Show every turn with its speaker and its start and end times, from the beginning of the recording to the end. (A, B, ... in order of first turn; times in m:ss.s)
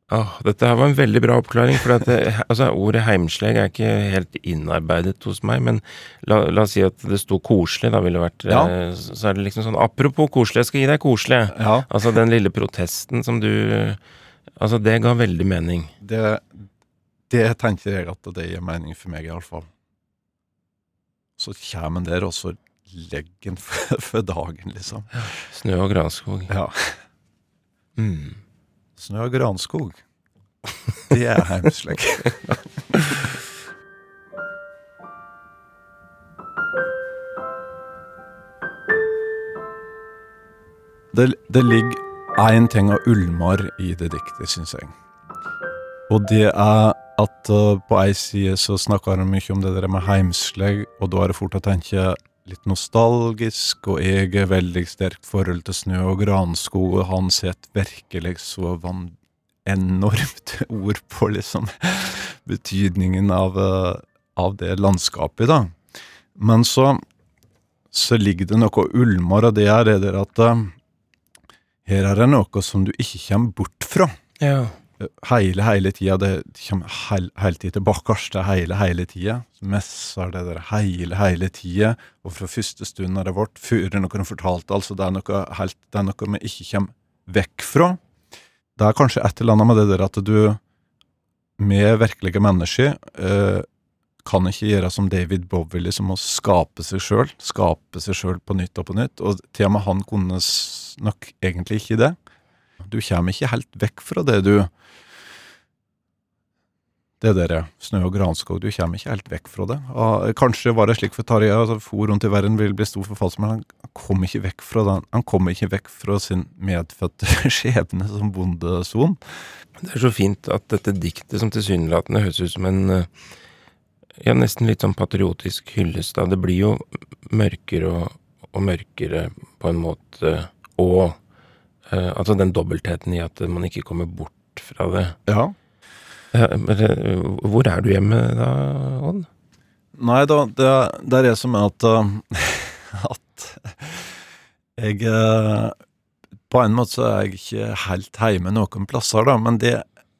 0:00.1-0:14.0 A
0:08.5-0:08.7 B
0:11.5-0:11.9 B
0:14.6-0:15.9 A
0:16.0-0:16.6 B
0:17.3-0:19.7 B
0:21.4-0:25.3 B
0:25.3-0:26.5 A
0:26.5-0:27.0 B
0:28.0-0:28.4 A
0:29.0-0:30.0 B
0:31.1-0:33.2 B
0:41.1-0:44.9 B
0:46.1-0:59.1 B
0:59.6-1:05.7 B
1:06.4-1:07.0 B
1:07.9-1:10.7 B
1:11.8-1:14.1 B
1:14.4-1:14.7 A
1:15.0-1:28.0 B
1:28.8-1:30.6 B
1:31.6-1:33.6 B
1:34.2-1:42.2 B
1:42.8-1:44.7 B
1:47.2-1:59.2 B
1:59.8-2:03.1 A
2:04.2-2:11.2 A
2:11.9-2:15.2 A
2:15.3-2:15.5 B
2:16.3-2:19.3 A
2:20.0-2:24.2 B
2:24.8-2:25.8 B
2:26.5-2:29.8 B